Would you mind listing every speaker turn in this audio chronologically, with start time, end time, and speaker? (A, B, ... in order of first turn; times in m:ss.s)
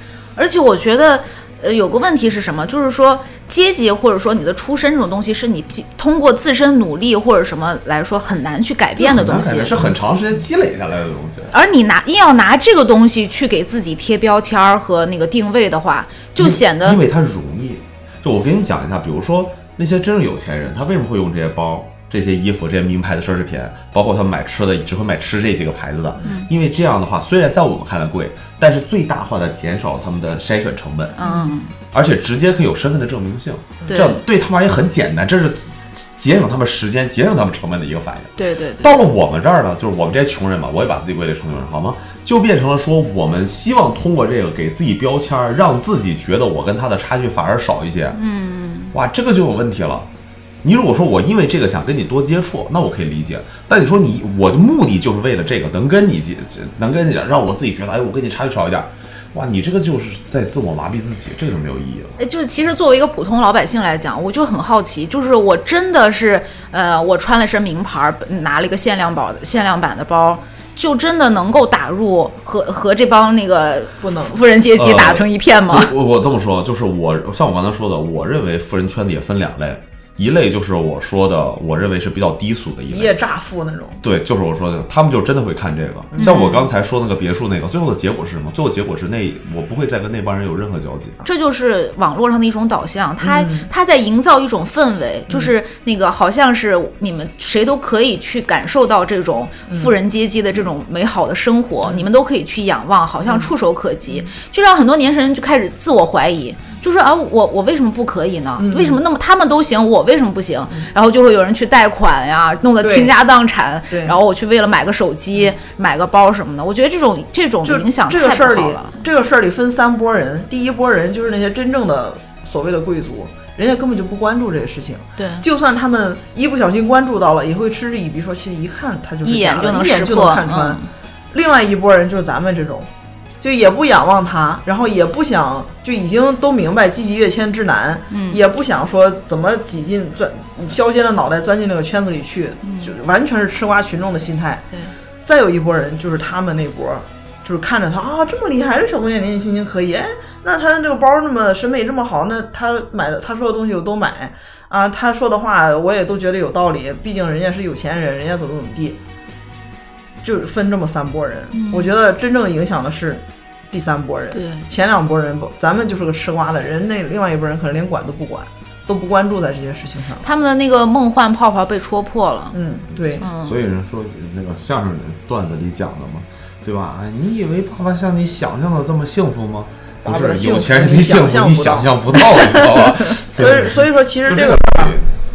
0:00.4-0:09.7 A
0:09.0-0:11.5 B
0:11.5-0:17.0 A
0:16.4-0:31.2 B
0:31.2-0:31.7 A
0:31.9-0:48.2 B
0:33.9-0:34.2 A
0:38.4-0:39.0 A
0:48.2-0:48.9 A
0:48.9-0:50.1 B
0:50.6-1:02.2 B
1:02.2-1:15.9 A
1:14.0-1:14.4 C
1:14.7-1:23.1 B
1:22.9-1:24.0 C
1:24.0-1:31.2 B
1:26.1-1:26.4 C
1:26.2-1:26.7 A
1:31.2-1:59.0 A
1:33.2-1:33.7 C
1:43.2-1:43.5 C
1:48.6-1:49.0 C
1:52.8-1:53.1 C
1:53.9-1:54.2 C
1:57.6-2:12.9 C
2:05.2-2:05.4 A
2:09.2-2:10.8 A
2:13.4-2:24.6 C
2:18.1-2:18.4 A
2:22.6-2:22.9 A
2:25.2-2:39.0 C
2:40.2-2:50.2 C
2:41.5-2:41.9 A
2:44.3-2:44.6 A
2:50.2-2:52.6 A
2:52.5-2:53.3 C
2:53.2-2:53.6 A
2:53.4-3:05.1 B
3:00.0-3:02.0 C
3:03.3-3:05.0 C